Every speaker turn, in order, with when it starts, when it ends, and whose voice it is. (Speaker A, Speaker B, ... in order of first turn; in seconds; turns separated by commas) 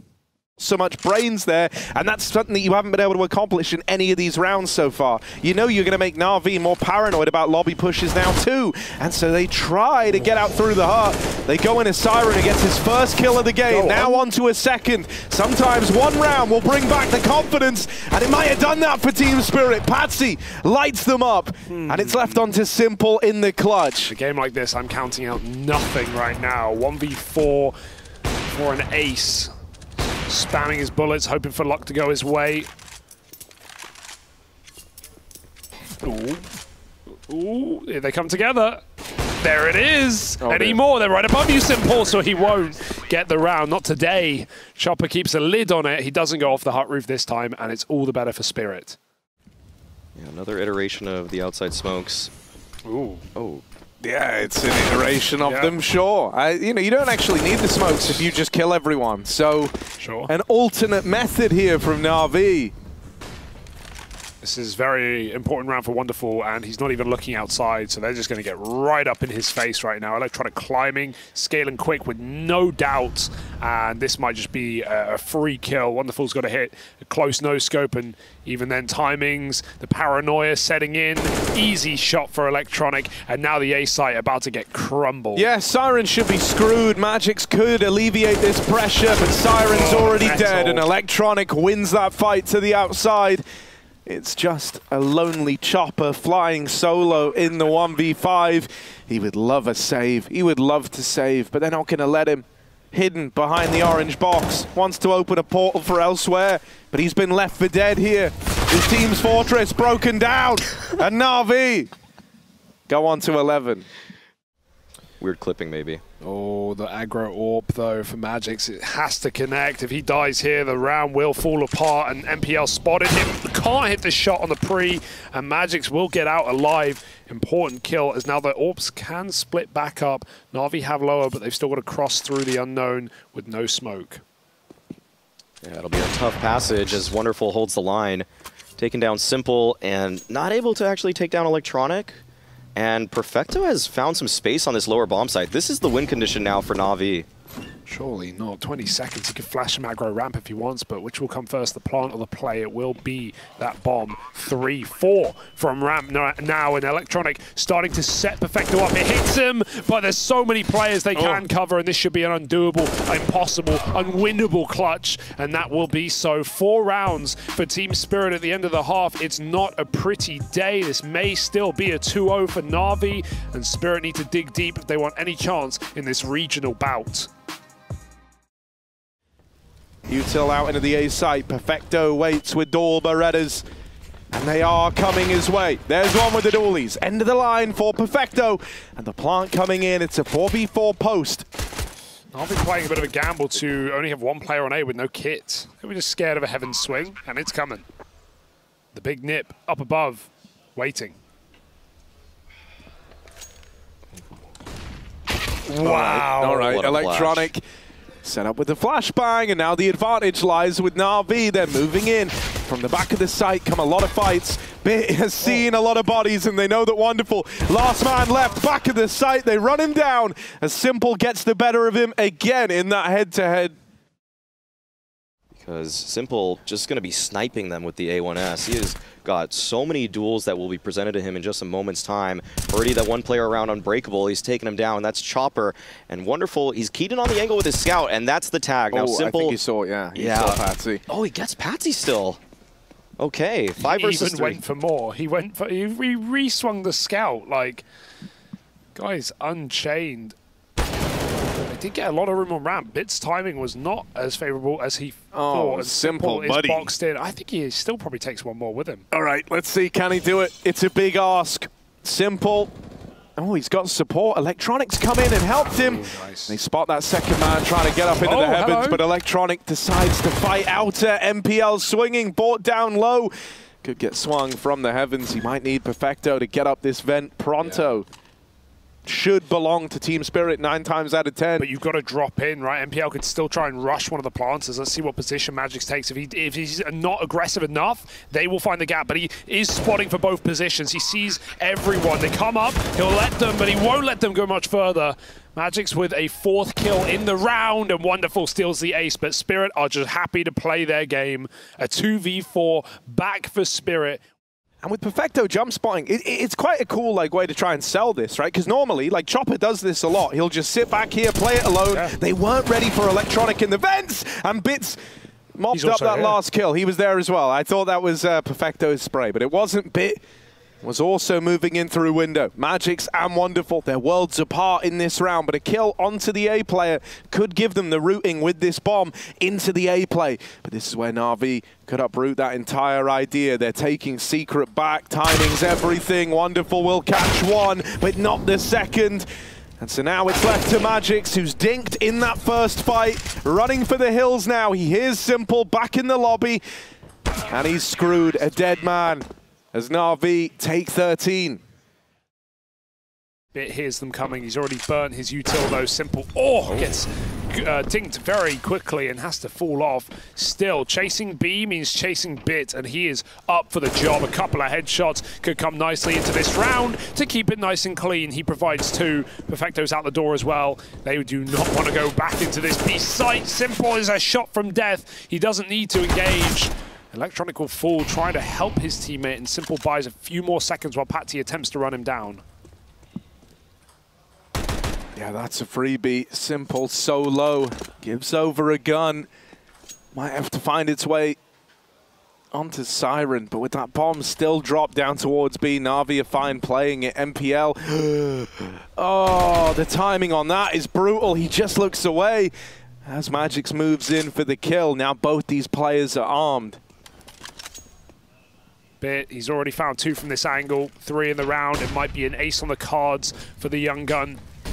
Speaker A: 0.6-24.1, Speaker B: 13.7-14.2, Speaker B: 21.7-22.4, Speaker B: 24.1-27.8, Speaker B: 28.5-29.5, Speaker B: 30.3-32.7, Speaker B: 36.0-36.5, Speaker B: 37.3-38.8, Speaker B: 39.4-49.0, Speaker A: 40.4-40.8, Speaker C: 50.1-52.3, Speaker B: 52.8-53.2, Speaker C: 53.3-53.6, Speaker A: 54.0-59.7, Speaker B: 55.4-55.7, Speaker B: 60.0-60.3, Speaker A: 60.3-62.7, Speaker B: 64.4-85.5, Speaker A: 85.3-93.4, Speaker B: 89.7-90.9, Speaker A: 94.0-111.9, Speaker A: 112.9-113.9, Speaker C: 115.2-116.0, Speaker B: 116.2-134.2, Speaker C: 135.6-142.2, Speaker C: 142.8-147.3, Speaker B: 147.9-177.3, Speaker A: 161.1-161.5, Speaker A: 180.1-183.6, Speaker A: 184.3-191.4, Speaker B: 192.3-197.8, Speaker B: 198.9-201.2, Speaker A: 205.7-207.6, Speaker B: 205.8-206.8, Speaker C: 206.4-207.5, Speaker A: 208.2-223.7, Speaker C: 225.6-239.6, Speaker A: 238.9-241.0, Speaker C: 240.1-242.4, Speaker C: 243.2-244.6, Speaker B: 243.8-247.8, Speaker B: 248.9-250.3, Speaker B: 251.6-259.0, Speaker A: 255.3-256.9, Speaker A: 259.1-262.7, Speaker A: 263.4-278.1, Speaker B: 265.8-266.6, Speaker B: 268.2-269.0, Speaker A: 279.1-281.7, Speaker B: 281.6-304.2, Speaker A: 304.8-315.0, Speaker B: 311.9-312.1, Speaker A: 315.6-320.2, Speaker B: 315.7-316.4, Speaker A: 320.8-339.3, Speaker A: 339.8-346.6, Speaker A: 347.5-351.6, Speaker B: 353.5-382.4, Speaker A: 385.1-389.3, Speaker A: 390.1-391.4, Speaker A: 392.5-402.5, Speaker A: 403.0-406.8, Speaker B: 409.0-414.4